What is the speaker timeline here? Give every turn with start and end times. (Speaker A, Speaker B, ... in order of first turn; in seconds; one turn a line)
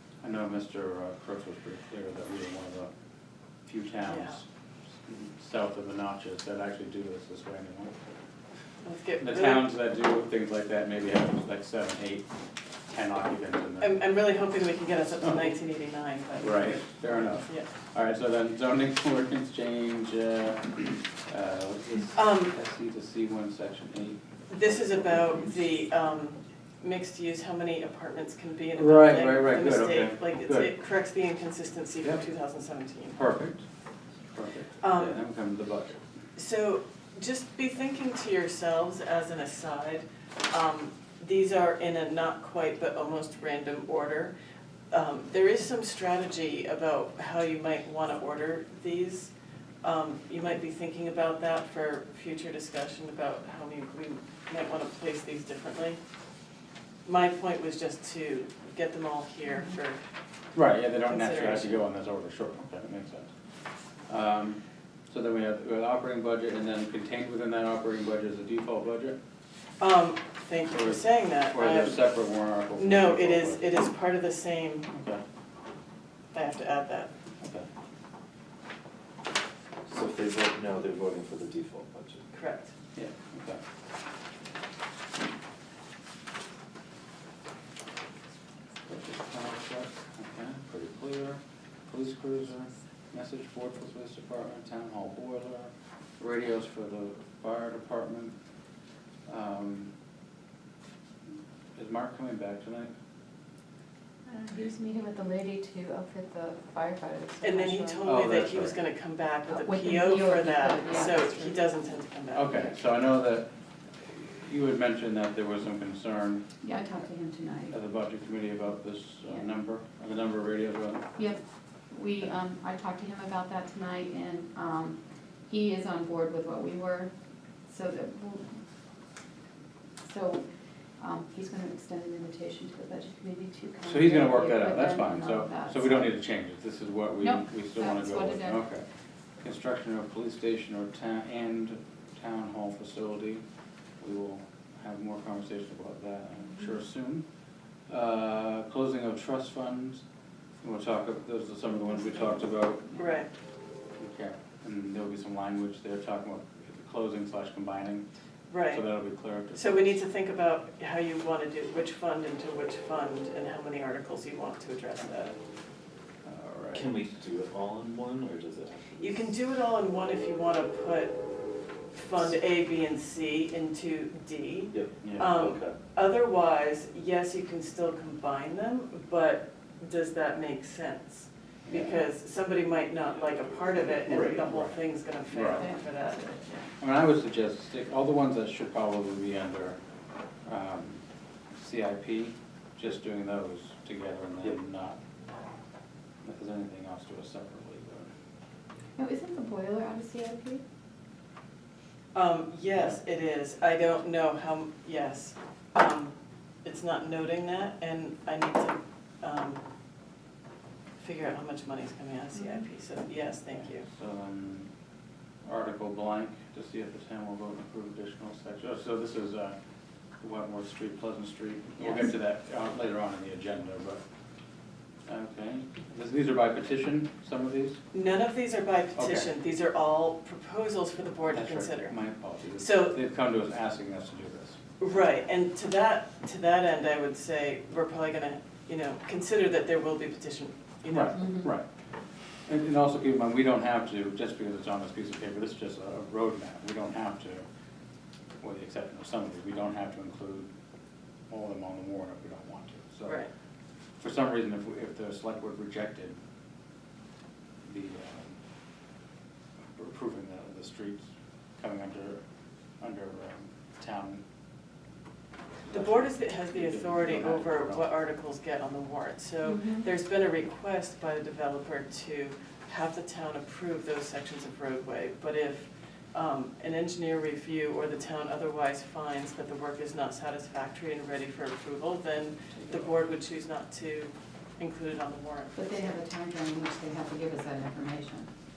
Speaker A: 0.2-2.9
Speaker A: 3.6-4.5
Speaker B: 4.0-4.4
Speaker A: 5.0-7.9
Speaker B: 8.8-9.7
Speaker A: 9.2-12.3
Speaker A: 12.9-14.0
Speaker B: 13.8-17.7
Speaker A: 15.2-15.5
Speaker A: 16.4-25.5
Speaker B: 22.1-22.5
Speaker B: 24.5-33.2
Speaker A: 28.8-30.7
Speaker A: 33.1-33.6
Speaker A: 34.3-36.0
Speaker B: 34.8-35.2
Speaker B: 36.4-44.3
Speaker B: 44.9-49.3
Speaker B: 49.8-56.0
Speaker B: 57.0-60.0
Speaker A: 60.5-63.3
Speaker B: 61.1-61.8
Speaker A: 64.1-69.2
Speaker B: 69.8-72.0
Speaker A: 70.7-73.7
Speaker B: 72.8-74.9
Speaker A: 74.9-75.2
Speaker B: 76.3-77.1
Speaker A: 77.4-77.7
Speaker C: 79.8-82.2
Speaker B: 82.3-82.7
Speaker A: 82.9-83.6
Speaker A: 88.8-98.3
Speaker A: 99.3-99.9
Speaker A: 101.7-102.9
Speaker D: 104.2-108.1
Speaker B: 107.4-112.7
Speaker A: 108.0-108.8
Speaker D: 109.5-111.6
Speaker A: 112.3-116.4
Speaker D: 116.6-117.7
Speaker A: 117.7-121.1
Speaker D: 121.2-127.1
Speaker D: 127.7-128.6
Speaker D: 130.0-130.4
Speaker D: 131.0-136.1
Speaker A: 133.8-138.8
Speaker D: 137.2-138.6
Speaker A: 139.4-143.4
Speaker A: 144.0-147.2
Speaker A: 147.9-150.0
Speaker A: 150.6-153.0
Speaker B: 153.0-153.3
Speaker A: 154.0-158.0
Speaker B: 158.5-158.8
Speaker A: 158.7-160.0
Speaker B: 159.5-165.4
Speaker A: 166.2-167.1
Speaker C: 166.7-169.2
Speaker B: 169.0-171.2
Speaker B: 171.9-186.4
Speaker C: 174.7-175.7
Speaker A: 175.0-175.3
Speaker A: 181.7-182.0
Speaker C: 183.7-184.4
Speaker A: 184.1-184.8
Speaker A: 185.3-185.7
Speaker D: 186.2-186.5
Speaker A: 186.8-189.8
Speaker A: 190.4-195.0
Speaker A: 196.2-198.1
Speaker D: 199.0-200.6
Speaker B: 202.1-209.6
Speaker B: 211.0-213.8
Speaker A: 213.5-214.7
Speaker A: 215.4-219.5
Speaker A: 220.2-224.0
Speaker A: 225.1-227.8
Speaker B: 227.9-231.9
Speaker A: 228.9-229.3
Speaker A: 231.3-234.6
Speaker B: 232.6-232.9
Speaker B: 234.8-241.4
Speaker A: 240.9-241.6
Speaker A: 242.5-247.4
Speaker A: 248.4-250.5
Speaker A: 251.3-253.2
Speaker B: 253.1-253.3
Speaker A: 254.0-256.1
Speaker A: 257.6-258.4
Speaker A: 259.7-262.2
Speaker A: 262.8-264.2
Speaker A: 265.6-267.9
Speaker B: 265.7-285.9
Speaker D: 269.4-269.9
Speaker D: 285.5-288.3